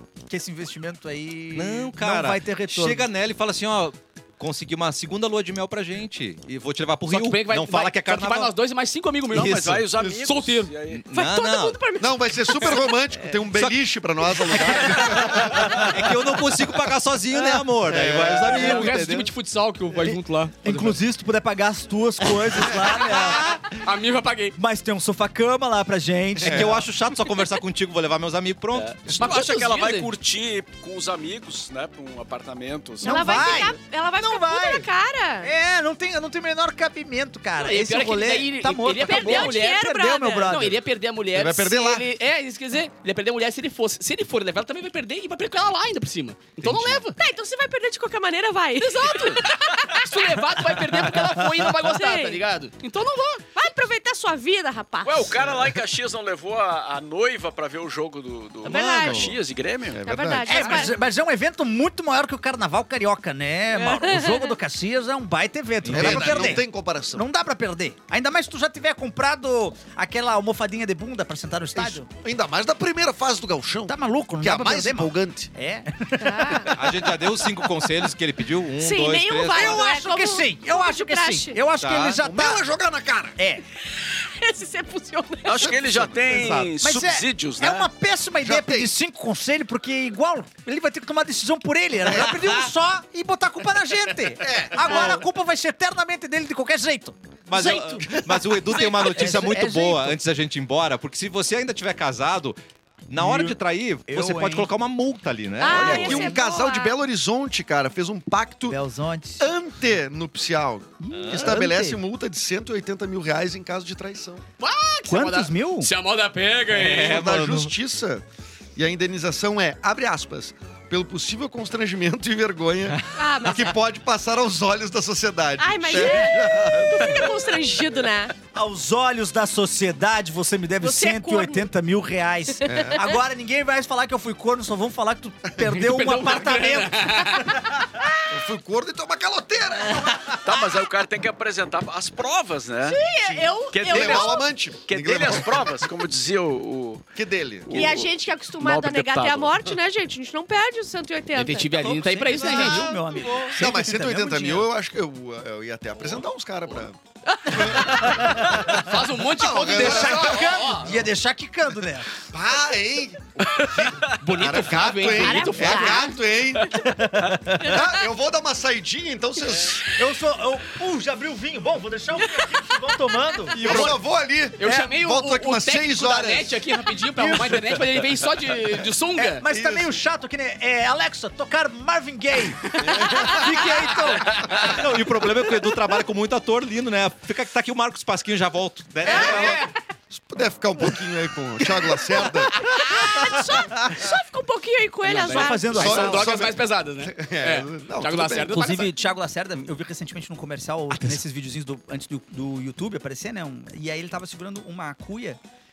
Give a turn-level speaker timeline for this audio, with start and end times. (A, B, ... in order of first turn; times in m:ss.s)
0:00.3-0:03.1 A
0:01.5-0:08.5 B
0:07.1-0:10.7 C
0:09.3-0:11.0 D
0:09.4-0:09.8 B
0:10.9-0:11.9 B
0:11.1-0:12.9 E
0:12.0-0:15.9 F
0:13.4-0:13.8 B
0:14.5-0:19.3 B
0:14.5-0:16.4 A
0:17.9-0:18.9 F
0:18.4-0:21.0 C
0:20.0-0:23.6 A
0:22.8-0:23.8 B
0:23.8-0:24.6 C
0:24.6-0:26.8 A
0:26.4-0:29.1 B
0:26.4-0:26.8 F
0:28.7-0:33.4 D
0:29.1-0:30.1 C
0:33.0-0:35.5 E
0:33.0-0:34.9 A
0:35.4-0:40.8 A
0:37.6-0:39.9 C
0:39.0-0:40.5 E
0:40.4-0:47.2 C
0:41.3-0:42.1 F
0:46.6-0:47.1 B
0:47.2-0:50.2 E
0:48.8-0:53.4 C
0:51.2-0:51.7 A
0:51.8-0:52.4 E
0:53.5-0:55.3 E
0:55.0-1:00.2 D
0:58.6-0:59.4 E
0:58.8-0:59.3 B
0:59.9-1:00.8 F
1:00.0-1:01.0 E
1:00.5-1:12.1 A
1:03.7-1:04.5 E
1:05.8-1:06.6 B
1:05.9-1:07.2 F
1:11.7-1:15.5 F
1:13.9-1:17.3 A
1:16.2-1:16.7 E
1:16.7-1:19.7 B
1:18.8-1:21.6 E
1:19.4-1:22.6 A
1:21.8-1:22.2 B
1:22.2-1:23.4 F
1:23.4-1:23.6 A
1:23.9-1:25.8 E
1:25.4-1:27.9 D
1:25.5-1:26.2 F
1:26.4-1:40.2 A
1:28.4-1:28.9 F
1:32.0-1:32.5 F
1:34.4-1:35.2 F
1:37.5-1:42.6 B
1:38.0-1:39.2 F
1:43.1-1:46.4 B
1:43.2-1:44.7 A
1:45.6-1:47.0 E
1:45.6-1:48.8 F
1:45.7-1:46.3 A
1:48.6-1:49.5 A
1:49.4-1:54.4 F
1:51.0-1:52.0 A
1:51.1-1:51.6 B
1:54.6-1:57.2 C
1:55.1-1:55.9 A
1:56.7-1:57.7 B
1:56.8-1:58.2 F
1:58.8-2:07.6 F
2:03.2-2:03.8 E
2:05.6-2:08.3 E
2:08.5-2:17.4 A
2:10.8-2:11.7 E
2:12.6-2:13.0 E
2:12.6-2:13.1 F
2:15.6-2:17.6 C
2:18.3-2:20.6 F
2:20.3-2:23.0 D
2:22.8-2:24.5 E
2:23.1-2:25.9 F
2:23.7-2:27.1 D
2:27.1-2:28.0 F
2:27.6-2:29.6 D
2:27.7-2:31.9 E
2:31.3-2:32.9 C
2:31.7-2:34.7 A
2:33.5-2:40.6 F
2:37.2-2:38.2 E
2:37.7-2:38.8 A
2:38.5-2:41.1 C
2:39.6-2:42.1 A
2:42.3-2:47.0 F
2:43.4-2:43.9 D
2:44.0-2:46.1 C
2:45.0-2:46.8 E
2:46.8-2:47.8 A
2:47.6-2:49.9 F
2:47.6-2:48.0 E
2:49.9-2:54.0 A
2:52.2-2:53.0 E
2:53.5-2:54.0 B
2:53.6-2:56.6 F
2:54.6-2:59.4 C
2:57.2-2:58.0 A
2:59.2-3:05.1 A
2:59.5-2:59.9 F
3:03.1-3:09.6 B
3:09.1-3:09.6 F
3:09.1-3:09.7 C
3:10.1-3:12.7 F
3:11.8-3:13.9 A
3:12.6-3:15.8 E
3:15.1-3:18.9 C
3:15.2-3:16.5 A
3:15.7-3:18.6 F
3:18.5-3:25.4 A
3:20.9-3:21.2 B